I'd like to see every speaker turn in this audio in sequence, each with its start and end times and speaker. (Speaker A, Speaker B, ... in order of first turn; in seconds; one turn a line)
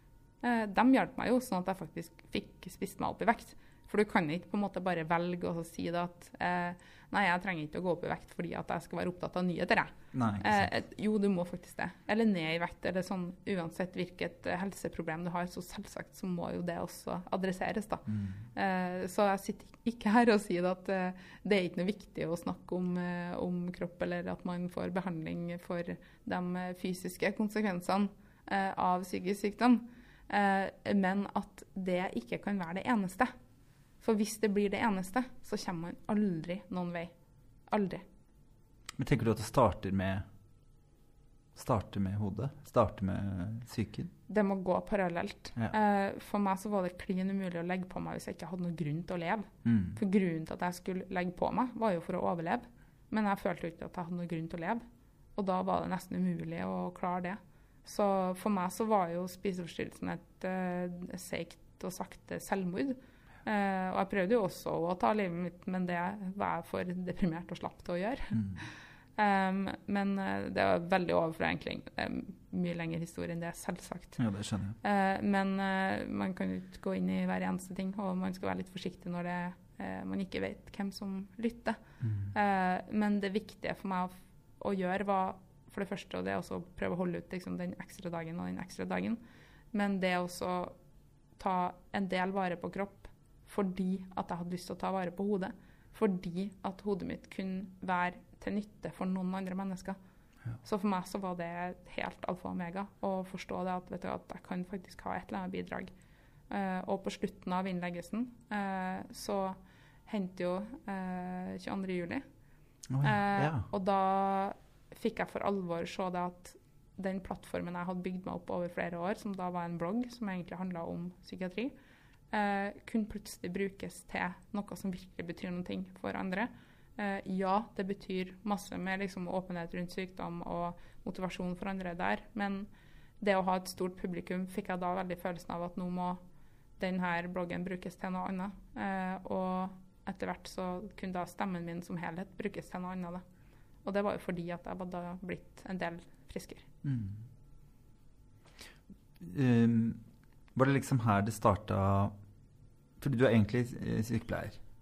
Speaker A: 0.4-33.3
Speaker B: 10.1-10.7
Speaker B: 18.1-18.4
Speaker A: 34.0-37.1
Speaker A: 37.7-38.0
Speaker B: 39.0-40.2
Speaker B: 41.5-44.1
Speaker A: 44.3-54.8
Speaker B: 49.6-50.0
Speaker A: 55.4-68.4
Speaker B: 68.3-68.6
Speaker A: 69.2-74.2
Speaker B: 74.2-74.8
Speaker A: 74.8-81.8
Speaker B: 82.0-82.3
Speaker A: 82.3-89.2
Speaker A: 89.7-90.7
Speaker A: 91.4-100.0
Speaker A: 100.6-105.9
Speaker A: 106.5-112.2
Speaker B: 112.9-113.7
Speaker A: 113.0-121.7
Speaker A: 122.3-132.7
Speaker A: 133.2-136.2
Speaker A: 136.8-143.2
Speaker A: 143.8-146.7
Speaker B: 146.8-147.2
Speaker B: 149.2-150.0
Speaker B: 150.6-152.1
Speaker B: 153.0-154.6